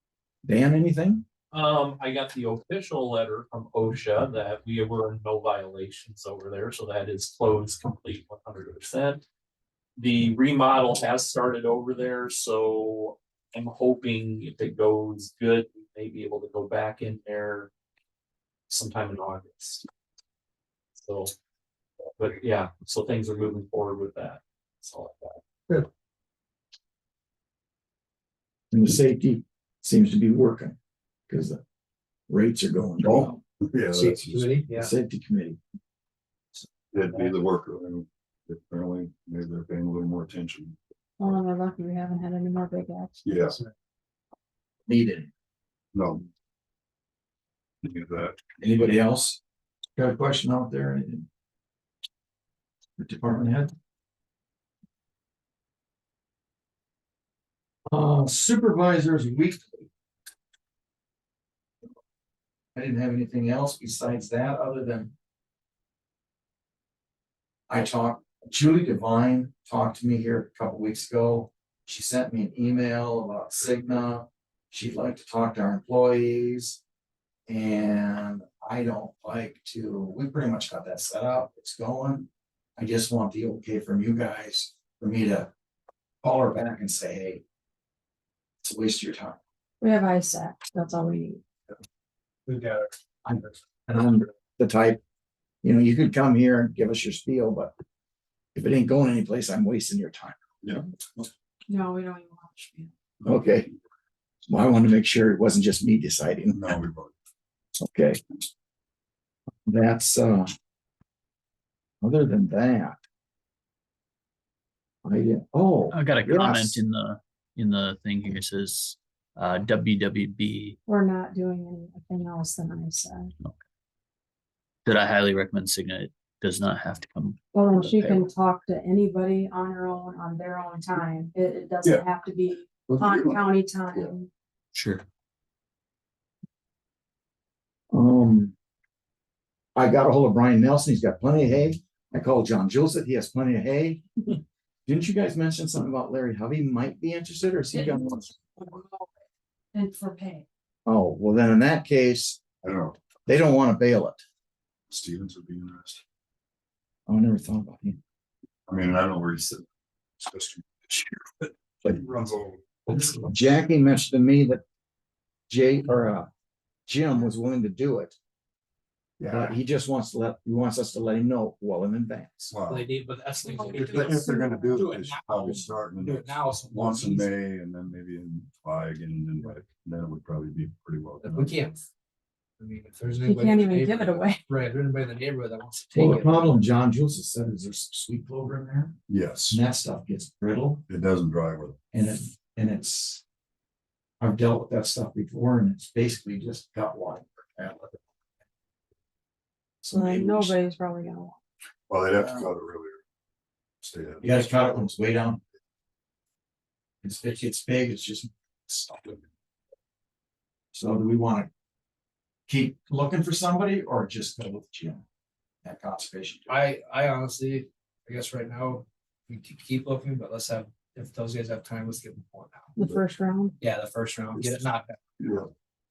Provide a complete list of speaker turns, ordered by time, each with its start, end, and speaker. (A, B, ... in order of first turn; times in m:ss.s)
0:00.4-0:01.2 A
0:01.5-0:09.2 B
0:10.0-0:17.7 B
0:18.7-0:19.9 B
0:21.0-0:21.3 B
0:22.2-0:25.4 B
0:28.7-0:30.8 A
0:31.3-0:31.6 A
0:32.3-0:33.4 A
0:33.0-0:34.5 C
0:33.9-0:34.9 D
0:34.7-0:35.6 A
0:36.9-0:40.8 C
0:41.2-0:43.3 E
0:43.2-0:43.6 C
0:44.9-0:45.3 A
0:45.9-0:46.3 C
0:47.8-0:48.4 C
0:48.6-0:49.4 A
0:50.0-0:51.3 A
0:53.0-0:53.7 A
0:57.9-0:59.9 A
1:02.8-1:05.1 A
1:07.7-1:16.8 A
1:17.5-1:25.5 A
1:26.2-1:27.4 A
1:28.6-1:29.4 A
1:29.8-1:31.4 E
1:32.5-1:32.9 D
1:33.2-1:35.0 A
1:35.6-1:37.7 A
1:38.6-1:40.4 A
1:41.7-1:42.9 E
1:43.2-1:43.7 A
1:44.5-1:46.6 A
1:46.5-1:47.1 C
1:47.8-1:48.2 A
1:49.7-1:50.5 A
1:52.0-1:53.0 A
1:55.0-1:56.8 A
1:55.9-2:00.8 F
2:00.9-2:03.3 E
2:04.8-2:08.3 F
2:07.5-2:14.3 E
2:12.8-2:14.1 C
2:14.7-2:15.0 F
2:17.9-2:18.6 A
2:19.8-2:24.1 A
2:24.9-2:28.3 A
2:27.7-2:29.1 E
2:29.7-2:30.5 E
2:30.9-2:32.5 A
2:32.6-2:33.0 C
2:33.3-2:34.2 A
2:34.9-2:36.0 C
2:37.1-2:38.0 A
2:38.7-2:39.7 C
2:40.2-2:43.2 C
2:43.1-2:44.6 A
2:45.5-2:46.3 A
2:46.9-2:48.2 A
2:49.2-2:49.5 C
2:49.3-2:52.6 A
2:52.5-2:52.9 C
2:52.7-2:57.3 D
2:53.4-2:54.8 E
2:53.6-3:01.6 C
3:01.2-3:01.8 D
3:02.6-3:06.6 D
3:03.2-3:04.4 E
3:05.9-3:09.0 A
3:09.1-3:09.6 C
3:09.5-3:10.8 A
3:10.9-3:11.8 C
3:11.9-3:13.2 A
3:14.2-3:18.0 A
3:19.8-3:20.6 A
3:19.9-3:21.4 E
3:21.9-3:23.0 C
3:23.8-3:24.3 C
3:24.2-3:25.4 A
3:27.0-3:29.2 A
3:30.7-3:31.5 A
3:32.5-3:35.0 A
3:35.6-3:36.6 A
3:36.5-3:42.7 D
3:42.8-3:43.6 E
3:43.6-3:45.0 D
3:45.2-3:45.5 C